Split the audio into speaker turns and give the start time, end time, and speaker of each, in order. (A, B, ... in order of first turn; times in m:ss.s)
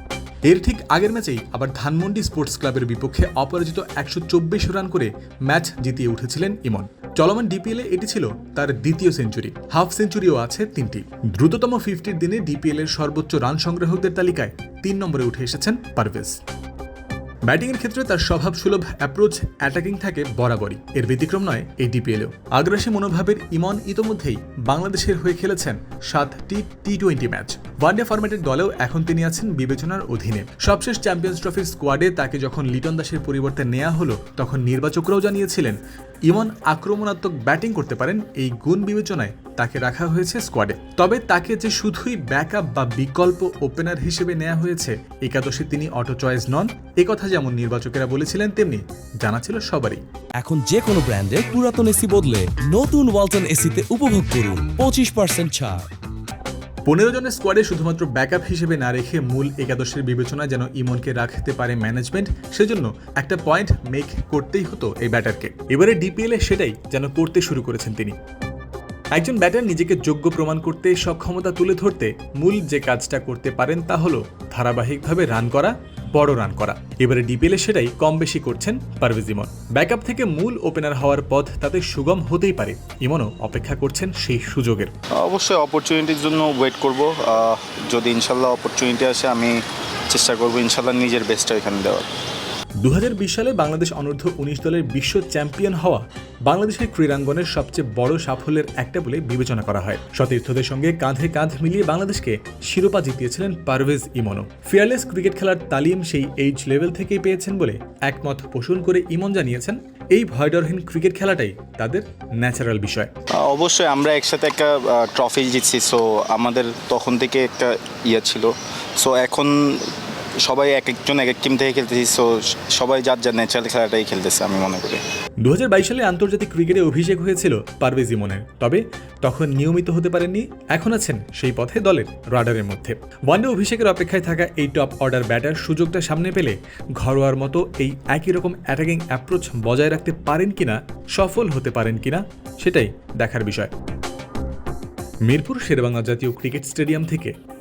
0:00.5-0:16.4 A
0:17.5-0:50.0 A
0:50.4-0:55.9 B
0:56.9-1:08.2 A
1:09.1-1:24.9 A
1:25.2-1:29.6 C
1:30.1-1:32.1 C
1:32.8-1:53.1 A
1:53.4-1:59.9 C
2:00.4-2:05.0 C
2:05.4-2:23.7 A
2:25.3-2:27.3 A